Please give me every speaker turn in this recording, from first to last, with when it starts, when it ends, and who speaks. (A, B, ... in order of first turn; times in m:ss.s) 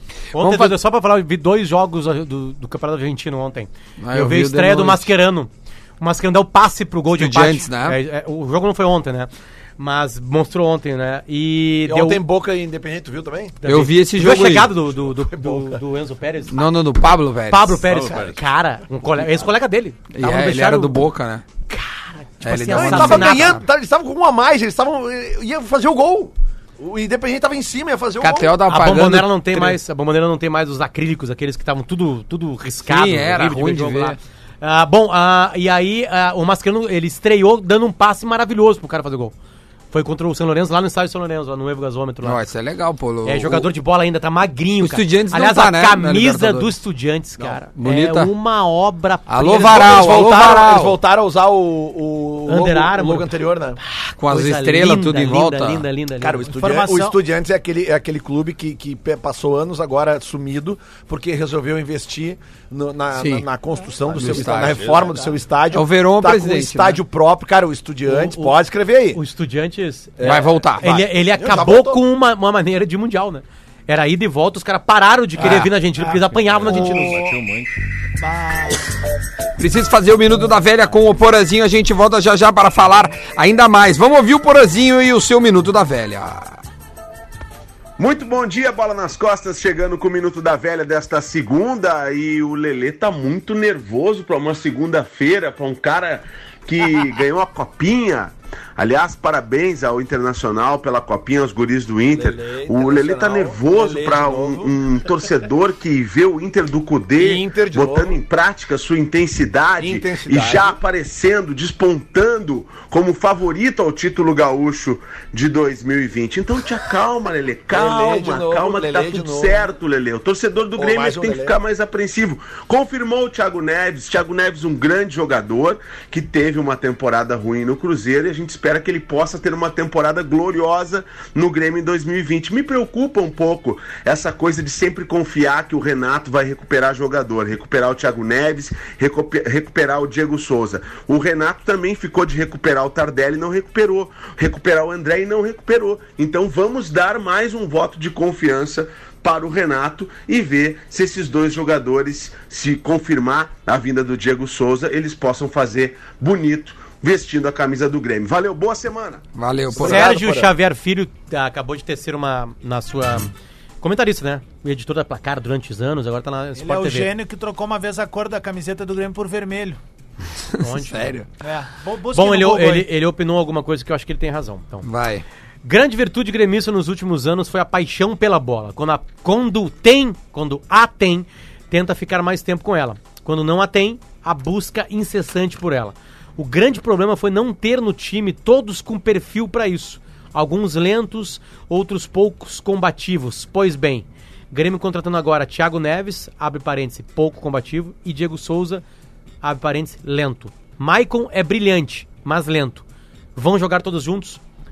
0:00.3-0:12.2 A
0:00.4-0:00.8 B
0:04.0-0:05.1 B
0:07.1-0:08.0 B
0:11.9-0:13.6 C
0:13.6-0:16.7 A
0:13.6-0:14.7 B
0:14.3-0:15.8 C
0:16.5-0:17.8 B
0:17.5-0:21.1 A
0:17.9-0:18.4 D
0:20.1-0:21.4 B
0:21.7-0:23.6 A
0:22.4-0:23.6 B
0:22.7-0:28.6 C
0:28.2-0:29.8 B
0:28.7-0:39.3 A
0:32.9-0:34.2 B
0:39.9-0:42.4 A
0:42.2-0:43.7 B
0:43.2-0:49.9 A
0:44.8-0:46.8 B
0:47.8-0:48.3 B
0:49.3-0:51.0 B
0:49.5-0:53.8 C
0:52.5-0:53.3 A
0:53.8-0:56.5 A
0:54.2-0:55.9 B
0:56.2-1:09.2 C
0:56.6-0:57.2 E
1:03.1-1:03.5 B
1:04.0-1:05.3 D
1:04.1-1:05.0 B
1:05.7-1:07.0 B
1:08.1-1:08.6 A
1:09.1-1:17.2 A
1:10.2-1:12.0 C
1:10.2-1:10.9 B
1:15.4-1:15.7 B
1:16.0-1:17.4 E
1:16.5-1:17.8 D
1:18.2-1:18.8 E
1:19.6-1:26.6 B
1:28.0-2:39.2 F
1:42.1-1:44.8 C
1:47.2-1:48.2 C
1:49.8-1:50.8 C
1:57.7-1:59.7 C
2:00.8-2:01.6 C
2:39.4-2:40.1 B
2:39.7-2:40.5 C
2:39.8-2:47.1 A
2:46.6-2:49.8 E
2:50.6-2:51.3 B
2:50.6-2:51.2 A
2:51.4-2:52.9 E
2:52.1-2:54.9 A
2:54.8-2:55.2 B
2:55.6-3:18.8 A
3:19.4-3:22.8 A
3:23.4-3:24.4 A